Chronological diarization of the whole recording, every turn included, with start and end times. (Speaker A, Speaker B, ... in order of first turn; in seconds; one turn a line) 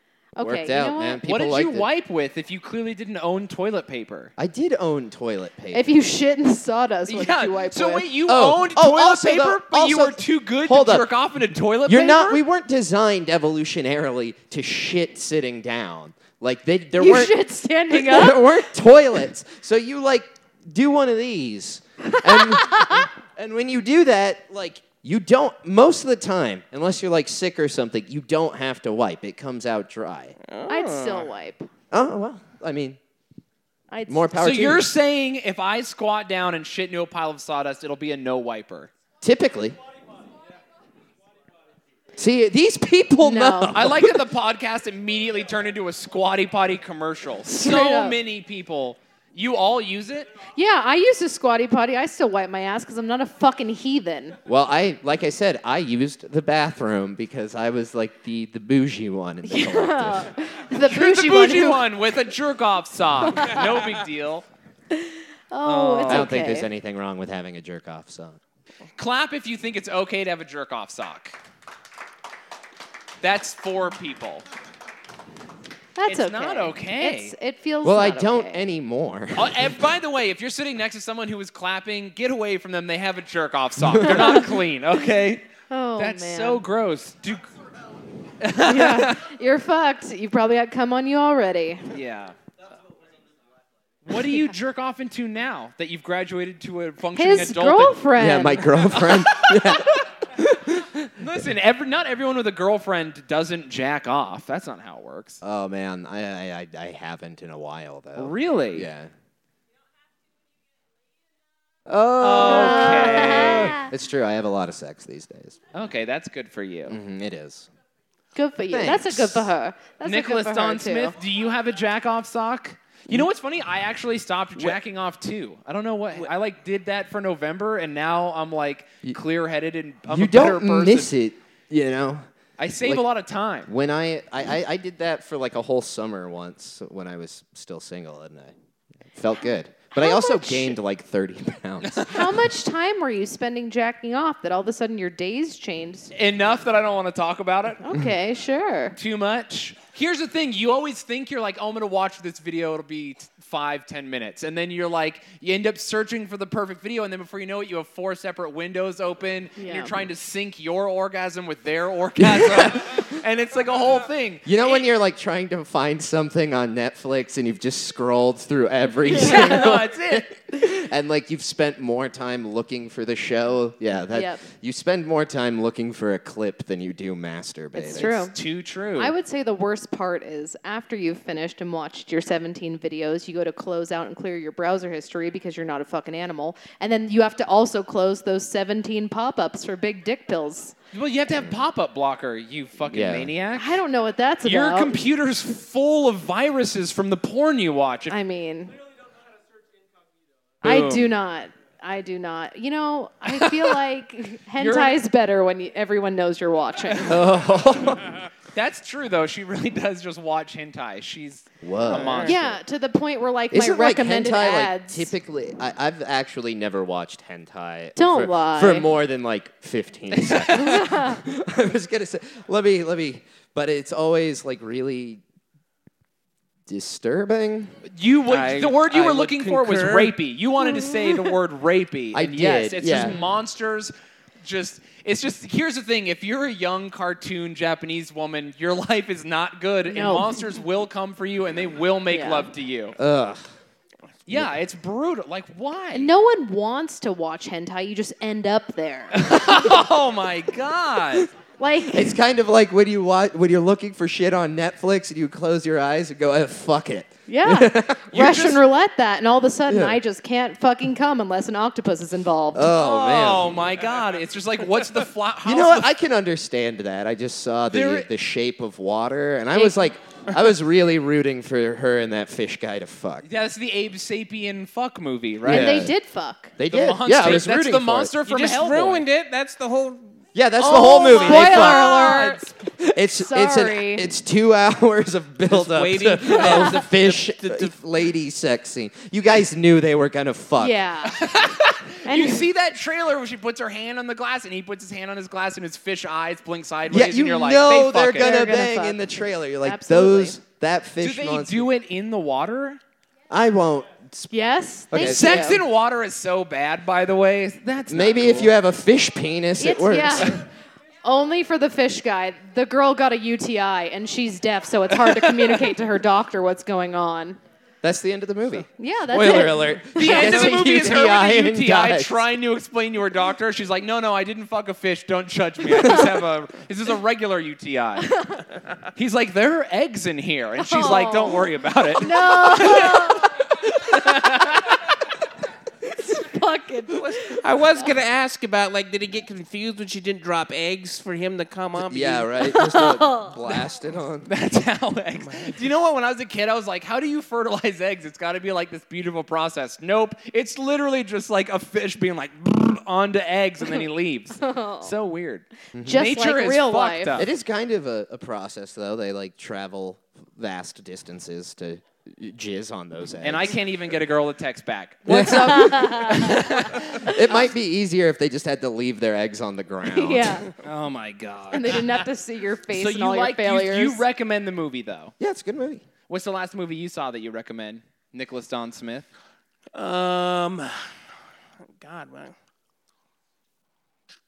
Speaker A: 0.3-1.2
Speaker B: 0.4-1.9
Speaker C: 1.2-4.3
Speaker B: 4.4-5.9
Speaker A: 5.7-8.2
Speaker C: 7.1-12.4
Speaker B: 8.2-11.1
Speaker B: 11.8-17.4
Speaker A: 16.9-18.6
Speaker B: 17.9-30.4
Speaker A: 22.3-23.1
Speaker D: 30.4-31.3
Speaker A: 30.7-31.7
Speaker B: 31.9-33.0
Speaker A: 33.9-34.3
Speaker B: 34.1-34.9
Speaker C: 34.4-38.9
Speaker B: 39.2-39.8
Speaker B: 42.1-44.2
Speaker A: 43.2-43.8
Speaker C: 43.7-50.3
Speaker A: 47.5-48.2
Speaker A: 50.5-54.4
Speaker B: 54.5-60.3
Speaker A: 59.5-61.9
Speaker C: 60.8-64.4
Speaker A: 64.9-66.7
Speaker C: 65.6-66.3
Speaker B: 66.1-68.4
Speaker C: 69.0-71.4
Speaker C: 73.2-74.4
Speaker A: 76.0-78.7
Speaker C: 76.1-77.3
Speaker B: 77.8-79.6
Speaker C: 79.3-85.4
Speaker A: 84.1-84.4
Speaker A: 85.7-86.6
Speaker C: 86.0-87.4
Speaker C: 88.4-89.2
Speaker A: 88.6-91.9
Speaker C: 91.9-92.3
Speaker C: 94.0-98.1
Speaker A: 97.1-98.9
Speaker B: 98.1-101.2
Speaker C: 98.9-99.8
Speaker C: 101.2-105.4
Speaker B: 105.4-109.1
Speaker C: 108.2-108.9
Speaker B: 111.9-115.6
Speaker C: 112.2-113.8
Speaker A: 112.4-113.9
Speaker C: 115.7-117.0
Speaker B: 116.9-117.7
Speaker A: 118.3-121.2
Speaker B: 118.7-119.5
Speaker C: 120.0-131.1
Speaker B: 130.1-132.3
Speaker C: 132.6-133.7
Speaker B: 133.7-138.5
Speaker B: 139.1-142.1
Speaker A: 139.9-140.8
Speaker C: 141.8-142.3
Speaker A: 142.0-146.1
Speaker C: 146.1-147.9
Speaker A: 147.8-148.9
Speaker C: 148.9-164.9
Speaker A: 159.6-159.9
Speaker B: 162.2-163.1
Speaker B: 164.4-178.3
Speaker C: 169.1-170.3
Speaker A: 169.2-169.6
Speaker A: 174.1-174.4
Speaker A: 177.7-178.3
Speaker C: 177.9-179.1
Speaker A: 179.0-190.8
Speaker C: 190.9-193.8
Speaker B: 192.9-193.3
Speaker A: 193.6-195.0
Speaker C: 194.4-198.2
Speaker A: 198.1-198.7
Speaker C: 200.6-201.1
Speaker A: 200.6-207.2
Speaker C: 203.2-203.8
Speaker C: 204.6-205.0
Speaker B: 207.1-208.2
Speaker C: 208.5-212.4
Speaker B: 211.6-212.6
Speaker D: 211.9-212.3
Speaker A: 212.2-215.1
Speaker B: 213.5-225.2
Speaker A: 217.9-218.9
Speaker C: 220.1-220.9
Speaker A: 220.5-221.2
Speaker B: 226.7-227.8
Speaker C: 227.9-243.0
Speaker D: 228.3-230.1
Speaker A: 230.6-231.3
Speaker B: 232.1-233.2
Speaker A: 239.9-240.4
Speaker A: 242.1-242.5
Speaker B: 243.0-243.5
Speaker C: 244.3-246.1
Speaker A: 245.9-249.7
Speaker C: 249.1-251.3
Speaker A: 251.6-252.2
Speaker B: 251.9-258.4
Speaker A: 257.3-262.7
Speaker C: 258.1-258.6
Speaker B: 259.7-260.0
Speaker B: 262.5-263.6
Speaker C: 262.7-265.9
Speaker B: 265.4-273.3
Speaker C: 267.7-268.1
Speaker A: 269.5-269.8
Speaker C: 273.2-275.9
Speaker B: 275.4-275.9
Speaker A: 275.4-276.5
Speaker B: 276.6-278.1
Speaker C: 276.6-279.0
Speaker D: 278.2-280.2
Speaker B: 280.3-290.8
Speaker C: 280.6-282.5
Speaker A: 280.6-282.4
Speaker A: 283.1-284.1
Speaker D: 285.5-287.7
Speaker A: 290.6-291.3
Speaker C: 291.1-298.3
Speaker A: 292.0-292.4
Speaker B: 296.9-301.7
Speaker A: 298.2-300.4
Speaker C: 301.0-302.8
Speaker B: 303.3-304.3
Speaker A: 304.3-305.6
Speaker B: 304.9-305.6
Speaker C: 304.9-308.5
Speaker B: 307.9-310.4
Speaker A: 309.6-310.4
Speaker A: 311.0-317.4
Speaker B: 317.8-322.1
Speaker A: 318.8-320.7
Speaker C: 319.9-328.2
Speaker C: 328.9-334.7
Speaker A: 330.6-333.5
Speaker A: 335.9-337.9
Speaker D: 337.2-342.3
Speaker B: 341.8-344.3
Speaker A: 342.4-343.4
Speaker C: 344.3-357.3
Speaker D: 345.2-345.5
Speaker A: 354.4-354.9
Speaker B: 355.7-356.0
Speaker A: 355.8-357.2
Speaker B: 357.1-363.6
Speaker C: 363.2-367.1
Speaker B: 365.1-370.4
Speaker A: 365.1-367.3
Speaker A: 369.8-370.5
Speaker C: 370.6-372.1
Speaker A: 371.5-374.0
Speaker C: 372.7-375.1
Speaker B: 375.2-375.8
Speaker C: 376.1-379.1
Speaker D: 379.7-380.9
Speaker D: 381.8-382.3